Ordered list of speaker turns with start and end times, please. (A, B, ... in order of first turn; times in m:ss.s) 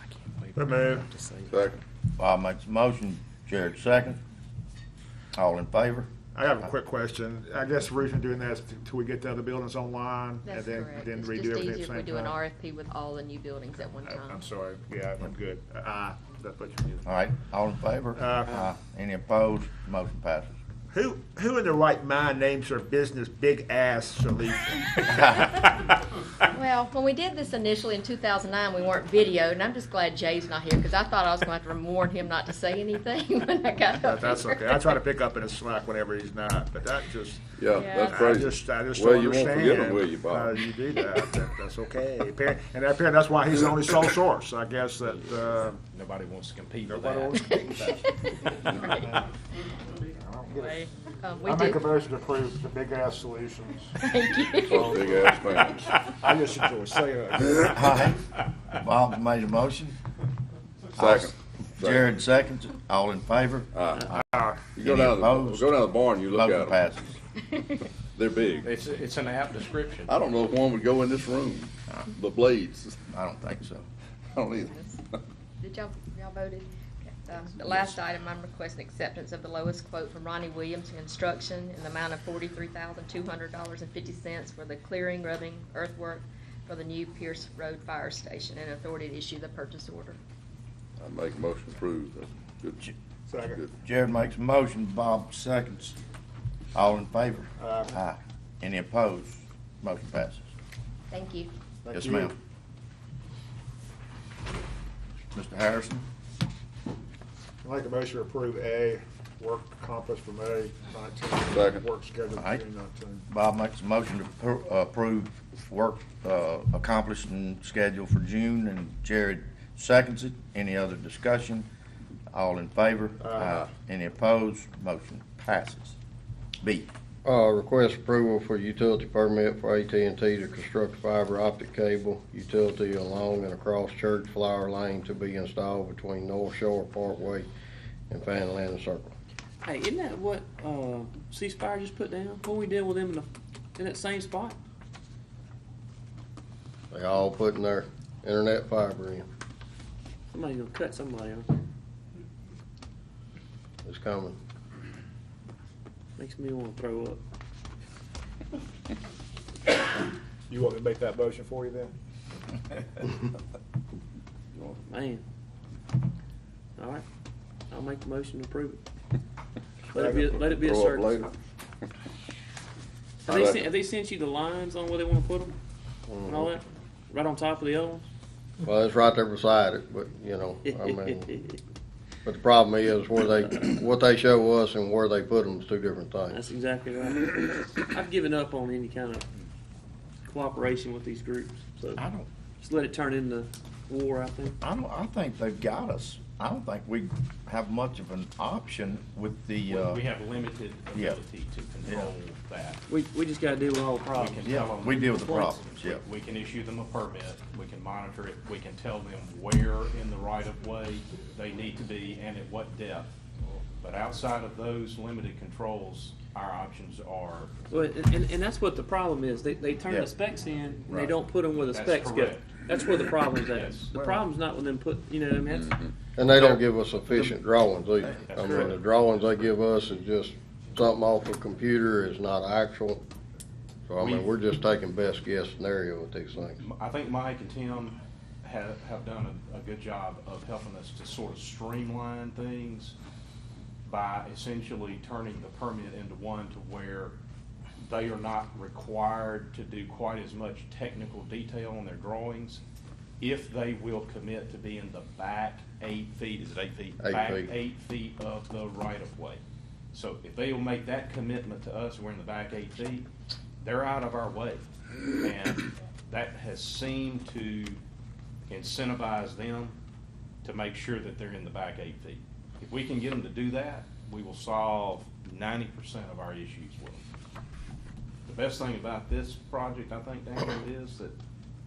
0:00.5-0:01.1 A
0:01.1-0:01.5 B
0:01.5-0:01.8 C
0:02.2-0:04.2 D
0:05.3-0:06.1 D
0:06.3-0:12.4 A
0:10.4-0:14.4 E
0:14.0-0:17.0 A
0:17.0-0:20.6 D
0:18.1-0:18.6 A
0:20.9-0:25.5 A
0:25.2-0:25.5 E
0:26.5-0:35.0 E
0:34.0-0:37.4 A
0:37.6-0:40.6 C
0:37.8-0:38.1 E
0:38.0-0:45.8 A
0:45.0-0:47.6 F
0:46.9-0:49.3 A
0:47.8-0:49.0 E
0:50.2-0:50.8 A
0:50.6-0:51.8 E
0:51.4-0:54.0 A
0:54.0-0:55.2 E
0:54.6-0:55.8 C
0:54.7-0:58.1 A
0:57.7-0:58.1 D
0:58.8-1:00.0 D
1:01.0-1:02.1 C
1:01.0-1:04.2 D
1:03.7-1:04.1 C
1:04.2-1:04.7 A
1:04.7-1:06.9 C
1:04.8-1:05.7 D
1:06.3-1:07.2 D
1:08.1-1:08.7 C
1:08.6-1:10.2 F
1:10.1-1:13.0 C
1:13.1-1:13.9 D
1:14.3-1:14.7 C
1:14.4-1:15.0 E
1:15.6-1:30.2 E
1:31.0-1:32.8 C
1:33.3-1:33.6 A
1:33.8-1:36.0 D
1:36.7-1:40.4 D
1:37.6-1:38.0 A
1:41.1-1:41.5 E
1:41.8-1:42.3 A
1:41.9-1:42.3 D
1:45.3-1:46.1 D
1:47.6-1:53.2 A
1:51.5-1:51.8 C
1:52.4-1:52.6 D
1:53.3-2:01.7 D
2:02.3-2:06.0 D
2:03.2-2:03.7 A
2:06.6-2:06.9 D
2:07.2-2:17.5 G
2:18.1-2:19.1 G
2:19.6-2:24.6 B
2:26.9-2:29.2 G
2:30.3-2:31.5 B
2:33.8-2:34.4 G
2:36.2-2:37.2 B
2:40.5-2:41.9 A
2:44.9-2:45.2 B
2:46.8-2:47.0 B
2:47.7-2:48.8 B
2:49.9-2:51.2 B
2:50.0-2:50.3 A
2:50.3-2:51.3 C
2:53.2-2:55.6 B
2:53.3-2:53.7 C
2:56.1-2:56.5 G
2:56.3-2:58.0 B
2:58.6-3:01.2 G
3:00.6-3:01.6 B
3:02.2-3:06.4 G
3:06.3-3:09.2 B
3:10.3-3:12.0 B
3:12.0-3:12.3 D
3:12.6-3:14.6 B
3:14.6-3:20.0 D
3:19.7-3:22.8 F
3:20.9-3:21.2 D
3:21.8-3:22.1 D
3:22.9-3:24.5 B
3:24.2-3:33.2 F
3:24.4-3:26.0 D
3:25.1-3:25.5 B
3:33.8-3:37.6 F
3:37.7-3:45.8 B
3:41.7-3:42.6 F
3:43.4-3:44.0 F
3:45.5-3:45.9 C
3:46.2-3:53.0 G
3:46.3-3:47.5 F
3:48.0-3:48.9 F
3:53.9-3:56.6 G
3:54.0-3:54.2 F
3:56.6-4:02.9 F
4:03.8-4:07.2 F
4:07.8-4:12.6 F
4:13.2-4:19.4 F
4:17.0-4:17.5 G
4:19.9-4:23.1 F
4:23.6-4:24.7 F
4:25.2-4:27.8 F
4:28.5-4:29.7 F
4:30.4-4:37.0 F
4:38.2-4:41.1 F